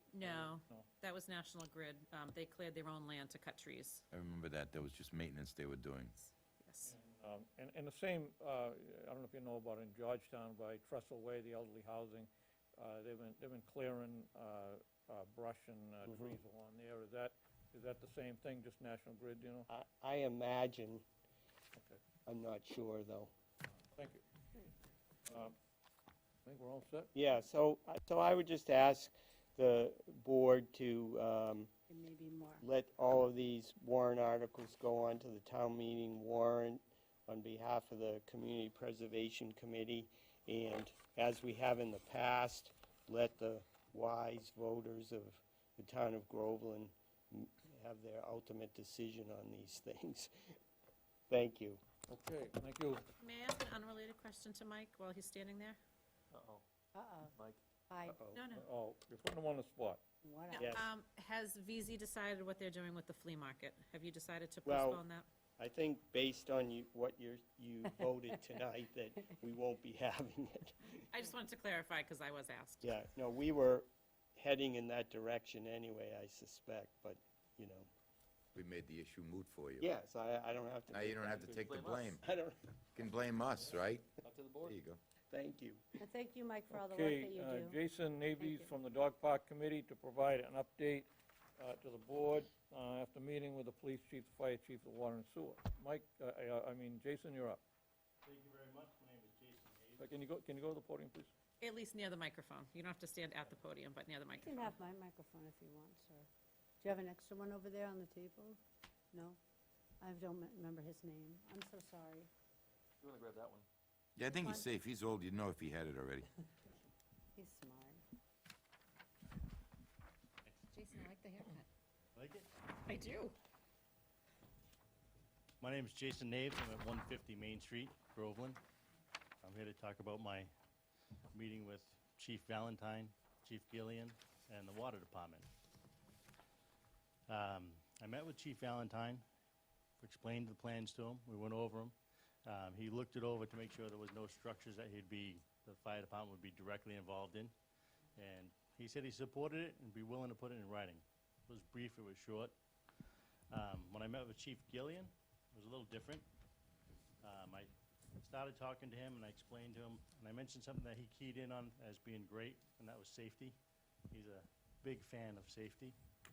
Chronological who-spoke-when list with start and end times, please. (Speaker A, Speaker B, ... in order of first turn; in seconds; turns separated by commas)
Speaker A: 0.1-4.0, Speaker B: 0.2-0.9, Speaker C: 4.1-6.1, Speaker A: 6.2-6.9, Speaker B: 6.8-19.7, Speaker D: 16.1-16.4, Speaker D: 19.7-21.1, Speaker B: 21.8-22.0, Speaker D: 22.3-23.3, Speaker B: 24.0-24.2, Speaker B: 25.3-25.6, Speaker B: 26.4-27.1, Speaker D: 27.1-31.7, Speaker E: 31.9-32.6, Speaker D: 32.6-50.3, Speaker D: 51.3-51.8, Speaker B: 52.1-53.0, Speaker A: 53.2-55.8, Speaker F: 56.3-56.6, Speaker E: 57.0-57.3, Speaker E: 57.9-58.2, Speaker D: 58.1-58.4, Speaker A: 58.3-58.7, Speaker B: 58.5-60.0, Speaker E: 60.2-60.8, Speaker A: 60.5-65.3, Speaker D: 60.6-60.9, Speaker D: 64.7-65.0, Speaker D: 65.6-71.0, Speaker A: 71.1-72.9, Speaker D: 72.8-77.9, Speaker C: 78.5-79.9, Speaker D: 79.8-82.6, Speaker C: 80.9-82.2, Speaker F: 81.3-82.2, Speaker C: 83.0-85.0, Speaker F: 84.2-84.8, Speaker D: 85.3-86.0, Speaker E: 86.0-87.8, Speaker B: 86.7-97.6, Speaker E: 88.4-88.7, Speaker G: 98.2-100.1, Speaker B: 100.0-101.3, Speaker A: 101.6-104.7, Speaker E: 104.3-106.3, Speaker E: 106.8-108.6, Speaker E: 109.1-109.4, Speaker E: 110.0-112.3, Speaker F: 113.0-113.7, Speaker C: 114.2-116.3, Speaker E: 114.3-114.7, Speaker E: 117.3-118.0, Speaker A: 120.7-121.7, Speaker G: 122.2-122.5, Speaker A: 122.9-123.3, Speaker G: 125.6-128.6, Speaker G: 129.4-130.5, Speaker G: 131.3-135.5, Speaker G: 137.3-139.2, Speaker G: 140.0-141.9, Speaker G: 142.5-147.5, Speaker G: 148.2-152.6, Speaker G: 153.5-156.3, Speaker G: 157.2-163.6, Speaker G: 164.1-166.0